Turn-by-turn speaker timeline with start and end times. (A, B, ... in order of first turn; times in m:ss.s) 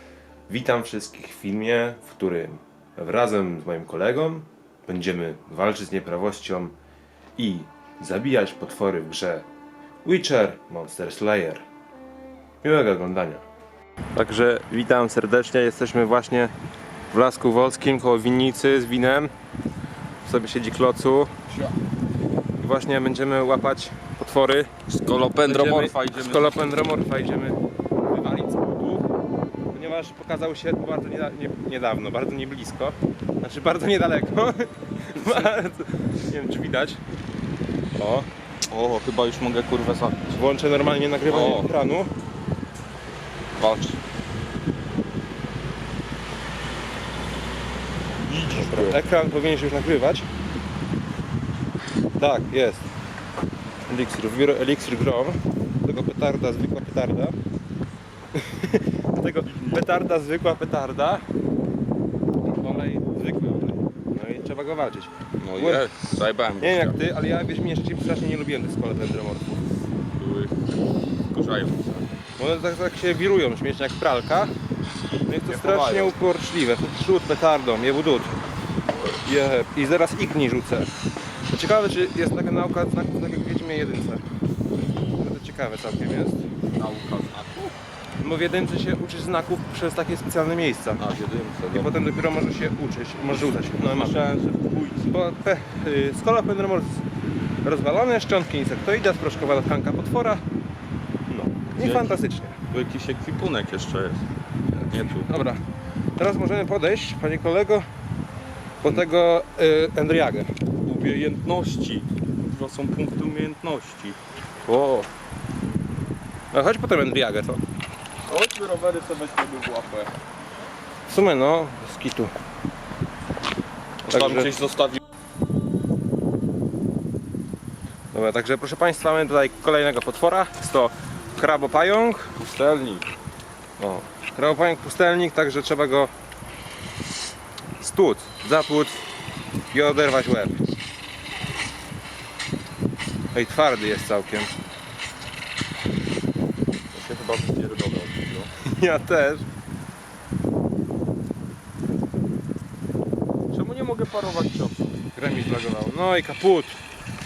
0:00.5-0:06.7 A
0:07.4-0:09.5 A
0:10.0-0:11.6 A
0:12.6-0:13.4 A
0:14.1-0:16.5 A
0:17.1-0:19.3 A
0:20.2-0:21.3 A
0:22.6-0:24.7 A
0:24.9-0:26.8 B
0:25.4-0:27.6 A
0:28.1-0:29.0 A
0:29.7-0:37.0 A
0:38.0-0:38.3 A
0:38.7-0:40.4 B
0:40.3-0:42.1 A
0:41.3-0:41.7 B
0:43.6-0:44.0 B
0:48.3-0:49.0 B
0:48.6-0:50.3 A
0:52.2-0:52.9 A
0:53.9-0:57.4 A
0:58.3-1:01.2 A
1:02.4-1:05.8 A
1:05.4-1:07.0 B
1:06.6-1:09.6 A
1:10.2-1:10.6 B
1:11.3-1:12.0 B
1:12.4-1:14.5 A
1:15.3-1:18.3 A
1:15.5-1:16.2 B
1:19.1-1:20.9 A
1:21.4-1:24.2 A
1:25.0-1:26.4 A
1:26.8-1:27.8 B
1:28.2-1:31.0 A
1:31.0-1:31.9 B
1:31.7-1:34.2 A
1:33.6-1:35.1 B
1:35.1-1:37.0 A
1:37.6-1:40.4 A
1:41.3-1:42.6 A
1:41.7-1:42.2 B
1:42.7-1:44.2 B
1:44.8-1:45.6 A
1:44.8-1:45.3 B
1:46.2-1:47.9 A
1:48.8-1:50.5 A
1:50.8-1:54.2 B
1:54.7-1:55.1 A
1:56.5-1:57.6 A
1:58.3-2:00.1 B
2:01.1-2:02.3 A
2:04.0-2:05.0 B
2:04.1-2:04.5 A
2:08.1-2:12.3 A
2:12.4-2:13.1 B
2:13.8-2:16.1 A
2:17.8-2:19.0 A
2:19.7-2:20.7 A
2:23.3-2:24.5 A
2:26.9-2:28.5 B
2:28.6-2:29.4 A
2:33.5-2:34.9 B
2:35.2-2:36.8 A